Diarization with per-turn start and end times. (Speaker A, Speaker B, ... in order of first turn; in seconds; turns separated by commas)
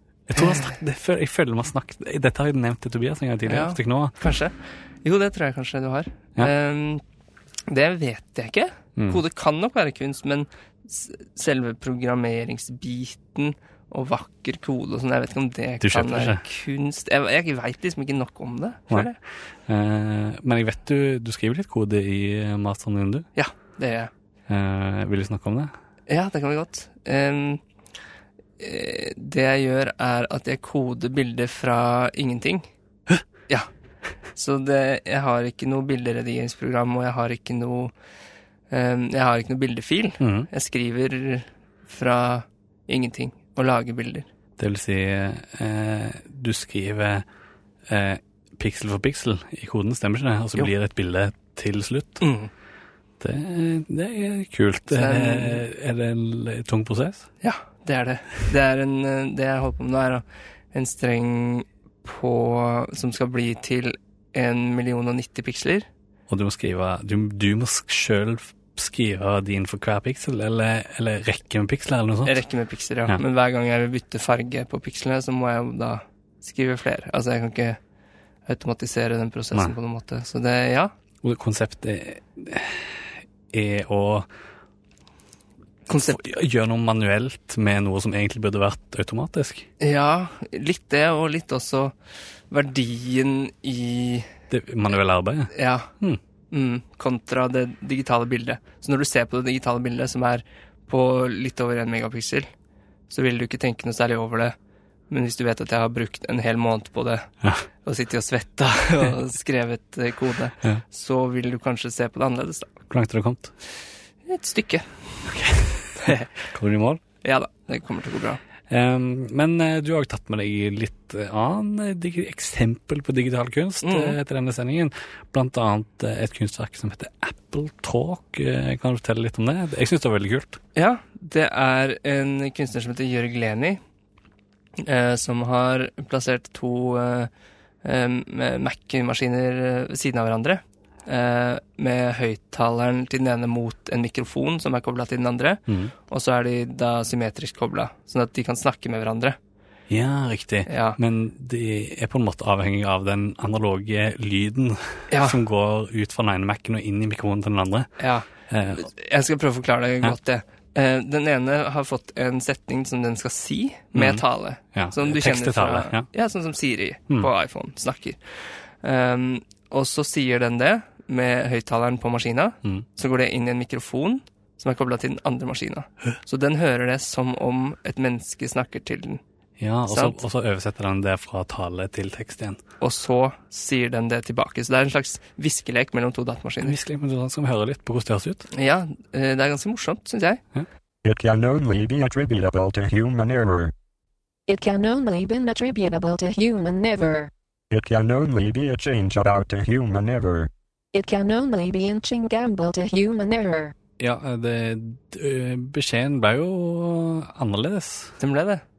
Speaker A: 0.3-4.2, Speaker B: 0.4-0.7, Speaker B: 3.5-7.0, Speaker B: 7.7-19.2, Speaker A: 9.0-9.2, Speaker A: 15.8-16.4, Speaker A: 19.7-23.3, Speaker B: 23.4-24.1, Speaker A: 24.5-25.7, Speaker B: 26.1-27.6, Speaker B: 28.6-32.7, Speaker B: 34.4-37.9, Speaker B: 38.7-44.3, Speaker A: 40.2-40.5, Speaker A: 44.6-47.2, Speaker A: 47.9-52.2, Speaker B: 52.2-52.5, Speaker A: 53.2-57.3, Speaker B: 54.9-55.6, Speaker B: 57.4-65.9, Speaker A: 66.3-72.4, Speaker B: 72.2-77.8, Speaker B: 78.5-80.9, Speaker A: 81.2-84.3, Speaker B: 85.9-86.2, Speaker A: 86.1-89.7, Speaker B: 89.8-92.0, Speaker B: 92.5-94.3, Speaker A: 94.5-96.2, Speaker B: 95.5-95.9, Speaker B: 96.5-102.5, Speaker B: 103.1-104.5, Speaker B: 105.1-107.3, Speaker B: 107.8-112.7, Speaker A: 112.9-113.5, Speaker B: 114.3-115.3, Speaker A: 115.2-117.0, Speaker B: 116.0-116.3, Speaker B: 117.2-118.4, Speaker A: 118.7-130.6, Speaker B: 123.8-124.2, Speaker B: 130.8-133.8, Speaker B: 134.8-137.3, Speaker B: 137.8-149.4, Speaker A: 145.7-145.9, Speaker A: 149.9-157.9, Speaker B: 150.7-151.0, Speaker B: 155.1-155.4, Speaker B: 158.0-179.2, Speaker A: 158.5-158.9, Speaker A: 163.9-166.1, Speaker A: 179.6-182.6, Speaker B: 179.9-180.2, Speaker B: 182.8-186.8, Speaker A: 186.6-188.5, Speaker B: 188.5-190.4, Speaker C: 191.0-193.7, Speaker D: 194.5-197.3, Speaker C: 197.7-200.5, Speaker D: 200.9-203.7, Speaker A: 204.0-208.2, Speaker B: 208.2-208.6